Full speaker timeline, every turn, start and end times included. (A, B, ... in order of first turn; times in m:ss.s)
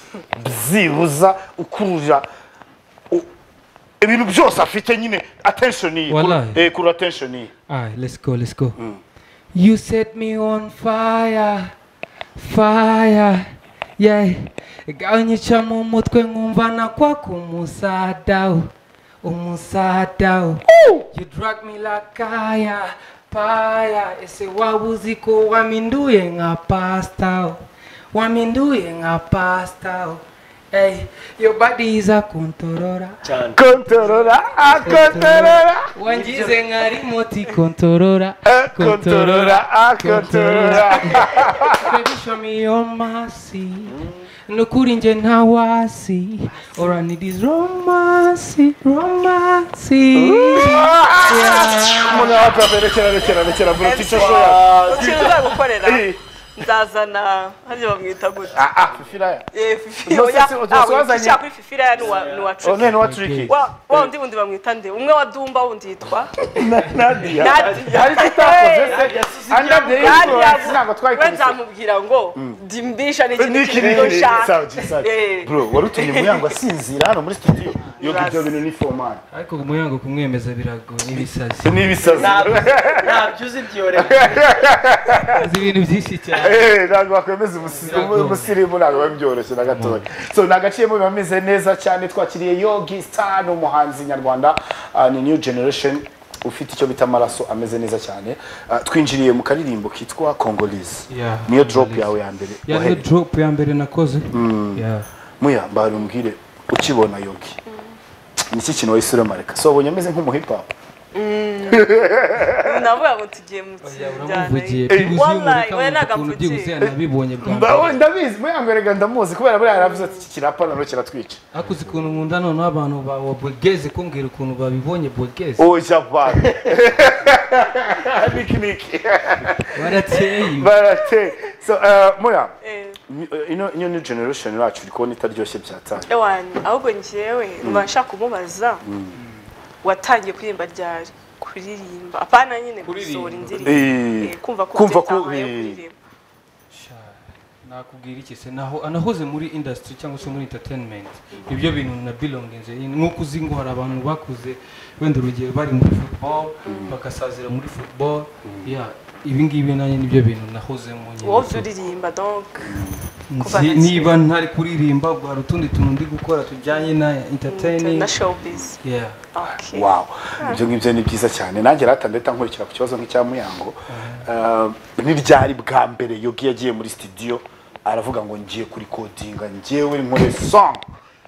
0:00.4-0:02.2 A
0:04.0-0:07.5 A
0:06.1-0:06.7 B
0:07.7-0:08.8 B
0:09.5-0:11.7 B
0:12.4-0:18.7 B
0:19.2-0:33.2 B
0:20.8-0:21.0 A
0:33.2-0:33.6 C
0:33.6-0:35.9 A
0:33.8-0:52.4 B
0:34.9-0:35.1 C
0:36.0-0:36.7 C
0:38.4-0:41.9 A
0:43.9-0:44.3 C
0:50.2-0:56.2 A
0:50.3-0:50.8 D
0:53.6-0:58.7 D
0:54.1-0:55.6 C
0:58.5-0:59.4 A
0:58.9-0:59.2 C
0:59.5-1:02.9 D
1:00.0-1:01.4 A
1:01.9-1:02.9 C
1:02.6-1:04.1 A
1:02.9-1:03.7 B
1:03.5-1:06.5 D
1:06.5-1:11.6 A
1:07.2-1:10.8 C
1:07.3-1:16.5 D
1:13.4-1:19.2 A
1:13.6-1:14.4 C
1:17.9-1:18.6 D
1:19.3-1:22.5 B
1:21.1-1:23.2 A
1:22.0-1:24.6 C
1:23.9-1:25.5 A
1:25.3-1:26.7 B
1:26.4-1:43.0 A
1:27.6-1:27.9 C
1:27.8-1:28.6 B
1:29.6-1:30.1 B
1:41.1-1:45.1 B
1:44.3-1:44.8 A
1:45.4-1:47.6 A
1:47.7-1:48.0 D
1:48.5-1:50.7 A
1:51.1-1:56.8 D
1:51.7-1:52.8 A
1:53.8-1:58.0 B
1:54.9-1:55.2 A
1:56.8-2:01.4 A
1:59.7-2:00.3 D
2:01.5-2:05.7 B
2:05.6-2:12.5 A
2:09.7-2:10.8 B
2:12.6-2:13.0 D
2:13.1-2:16.1 A
2:16.1-2:18.8 D
2:17.6-2:17.9 A
2:18.8-2:19.2 A
2:19.2-2:19.5 B
2:19.8-2:26.0 D
2:22.8-2:24.0 B
2:23.6-2:25.8 A
2:26.7-2:41.7 B
2:36.7-2:37.0 A
2:36.7-2:36.9 D
2:41.2-2:42.8 D
2:42.6-2:43.0 A
2:43.3-2:48.1 B
2:43.4-2:44.1 D
2:47.5-2:48.8 D
2:48.8-2:49.2 B
2:49.3-2:50.6 D
2:49.7-3:00.8 A
2:53.9-2:54.3 B